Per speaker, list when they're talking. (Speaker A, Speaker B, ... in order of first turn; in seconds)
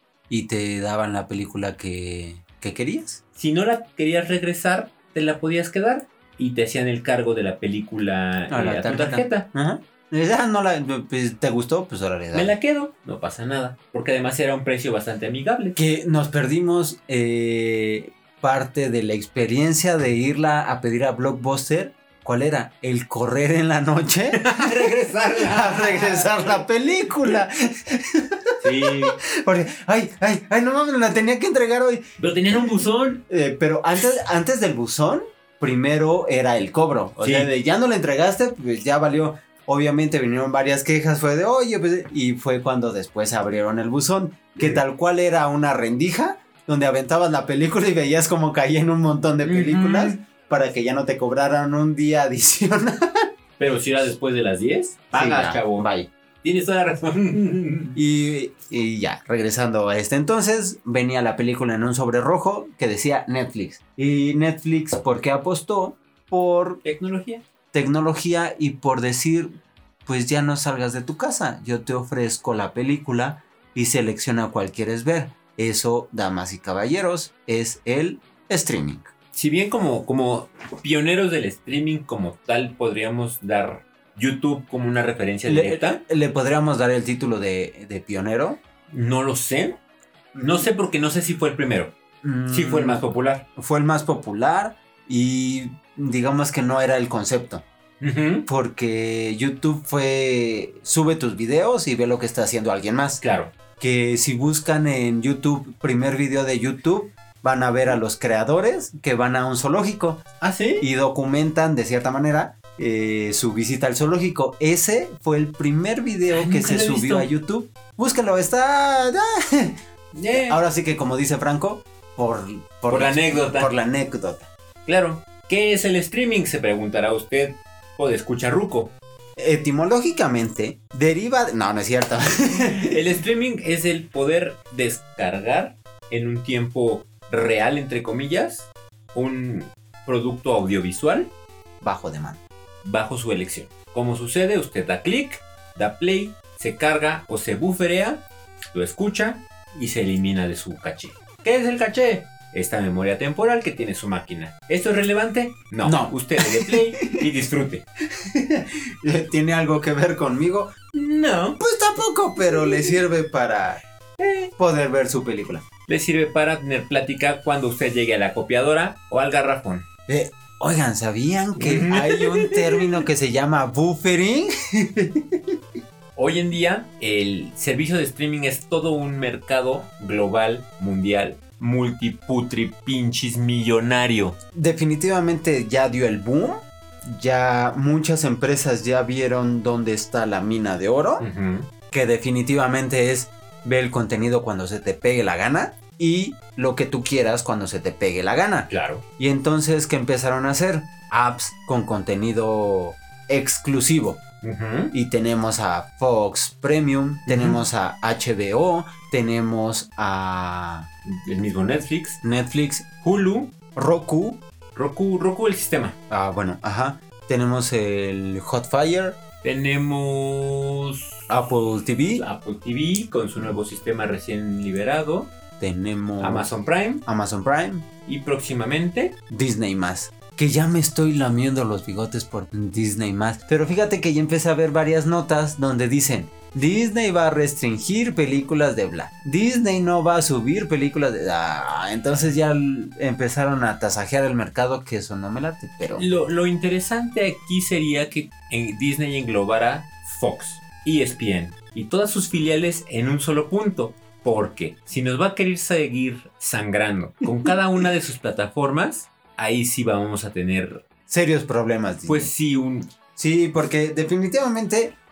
Speaker A: 0.3-3.2, 8.5-12.5, 15.8-32.7, 33.3-53.2, 55.1-56.1, 57.9-66.8, 67.7-79.1, 85.5-88.6, 90.3-90.7, 92.2-93.0, 93.5-97.6, 98.5-103.2, 103.8-110.2, 110.8-119.8, 120.3-124.5, 129.4-133.0, 141.8-142.4, 155.8-157.2, 158.2-160.7, 161.6-163.8, 164.6-165.6, 170.1-175.4, 184.5-191.3, 191.9-204.2, 204.9-210.9, 212.2-212.9, 213.7-214.4, 216.1-219.2, 221.3-222.2, 225.6-226.5, 227.0-227.8, 229.3-246.1, 261.1-262.3, 263.1-264.9
Speaker B: 3.4-9.5, 12.3-15.8, 24.3-26.6, 28.6-29.2, 32.2-33.2, 37.2-37.5, 49.4-50.2, 53.6-55.9, 56.4-58.0, 66.8-67.4, 79.3-86.0, 88.9-89.8, 90.4-91.9, 92.5-93.5, 98.0-98.5, 103.2-103.5, 110.4-110.8, 116.3-117.3, 120.1-120.6, 122.9-123.7, 124.8-128.9, 132.7-141.3, 142.8-157.8, 160.9-161.6, 162.4-163.0, 164.2-164.5, 165.9-169.8, 171.6-173.0, 176.2-184.3, 191.2-191.7, 198.7-199.0, 204.4-204.9, 207.2-207.6, 211.0-212.2, 213.0-213.5, 214.7-215.9, 219.4-221.2, 222.1-225.3, 226.2-227.0, 228.1-229.2, 245.9-260.8, 262.1-262.9